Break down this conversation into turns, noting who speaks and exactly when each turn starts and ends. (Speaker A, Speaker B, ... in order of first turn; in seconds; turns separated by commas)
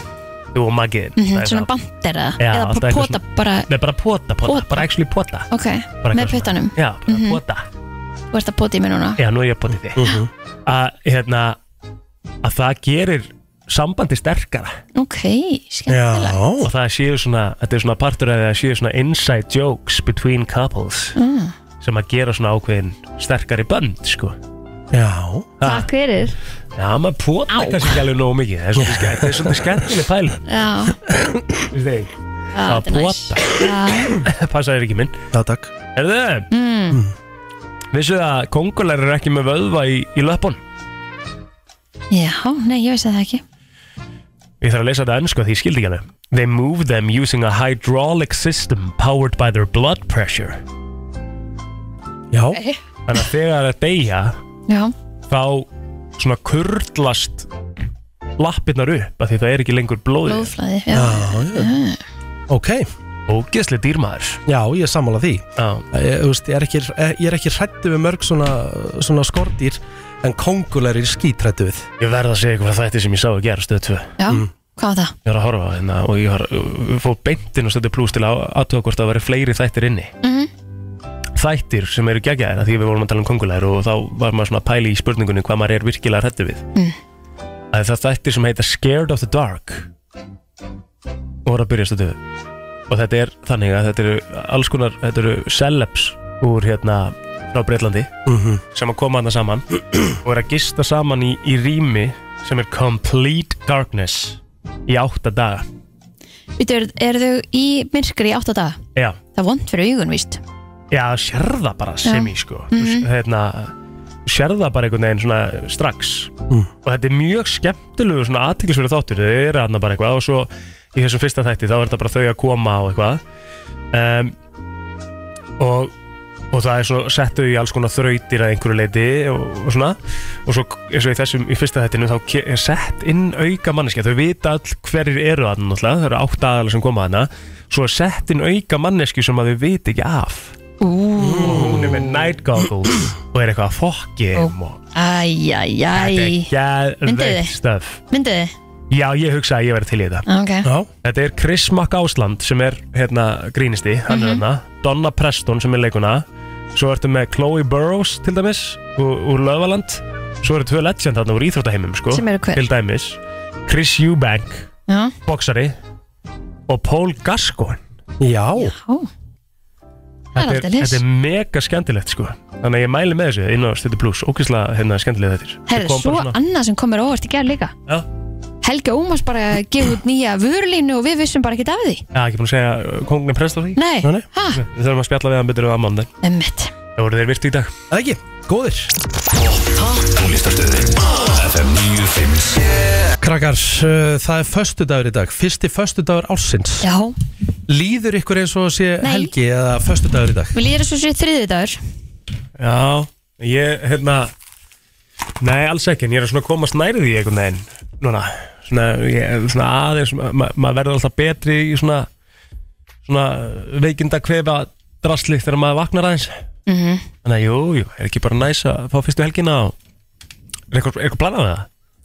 Speaker A: 0.5-1.7, Speaker B: 1.2-3.7, Speaker A: 2.4-5.5, Speaker B: 4.5-4.8, Speaker B: 5.5-7.4, Speaker A: 6.0-7.7, Speaker B: 8.3-9.2, Speaker A: 9.2-10.1, Speaker C: 9.9-10.3, Speaker A: 10.7-11.6, Speaker A: 12.4-14.7, Speaker B: 14.9-16.4, Speaker C: 15.9-16.7, Speaker A: 16.6-21.1, Speaker B: 21.1-21.5, Speaker A: 21.8-24.4, Speaker C: 24.9-25.5, Speaker A: 25.6-25.9, Speaker B: 25.6-26.4, Speaker A: 26.8-30.4, Speaker B: 27.5-27.9, Speaker C: 28.8-29.6, Speaker B: 30.5-31.0, Speaker A: 31.7-35.1, Speaker B: 32.5-34.1, Speaker C: 35.3-35.7, Speaker A: 35.9-36.5, Speaker B: 36.5-37.0, Speaker A: 37.9-40.6, Speaker B: 42.1-43.4, Speaker A: 44.6-50.6, Speaker C: 52.3-52.6, Speaker A: 53.1-54.4, Speaker B: 54.7-54.9, Speaker A: 55.3-57.5, Speaker A: 58.4-60.5, Speaker B: 60.2-62.0, Speaker C: 60.9-61.7, Speaker C: 62.5-62.9, Speaker A: 63.3-64.4, Speaker C: 64.5-71.9, Speaker A: 65.6-65.8, Speaker A: 72.0-74.1, Speaker B: 74.2-75.1, Speaker A: 75.2-80.1, Speaker B: 80.2-80.5, Speaker A: 81.3-86.6, Speaker A: 87.7-89.9, Speaker A: 91.4-92.2, Speaker A: 92.9-98.1, Speaker C: 98.3-98.6, Speaker A: 98.7-105.7, Speaker B: 106.6-108.8, Speaker B: 109.3-110.4, Speaker A: 110.9-113.7, Speaker B: 112.0-113.0, Speaker A: 114.2-116.3, Speaker A: 116.8-123.2, Speaker A: 123.9-124.3, Speaker A: 125.6-125.9, Speaker A: 126.5-140.5, Speaker B: 140.8-141.7, Speaker C: 141.2-142.2, Speaker A: 141.4-144.8, Speaker B: 144.3-146.5, Speaker A: 145.9-148.0, Speaker B: 147.0-147.5, Speaker B: 148.1-148.5, Speaker A: 148.9-150.2, Speaker B: 150.3-150.7, Speaker C: 150.6-150.9, Speaker A: 151.0-164.7, Speaker B: 154.1-154.4, Speaker B: 162.1-162.6, Speaker B: 164.9-165.1, Speaker A: 165.2-165.7, Speaker A: 166.7-167.8, Speaker C: 168.2-168.7, Speaker B: 168.6-169.1, Speaker A: 170.3-176.3, Speaker B: 170.4-171.0, Speaker B: 175.7-177.7, Speaker B: 178.6-182.0, Speaker A: 182.1-183.8, Speaker B: 183.8-184.6, Speaker A: 184.5-186.1, Speaker B: 186.2-186.7, Speaker A: 186.9-187.7, Speaker C: 187.9-188.9, Speaker D: 189.3-192.7, Speaker C: 193.2-196.9, Speaker B: 196.8-197.1, Speaker C: 197.7-200.5, Speaker B: 199.0-199.3, Speaker B: 200.5-201.8, Speaker A: 202.6-204.3, Speaker A: 205.4-212.1, Speaker A: 213.0-216.3, Speaker B: 216.7-217.0, Speaker A: 217.2-219.7, Speaker A: 220.7-221.7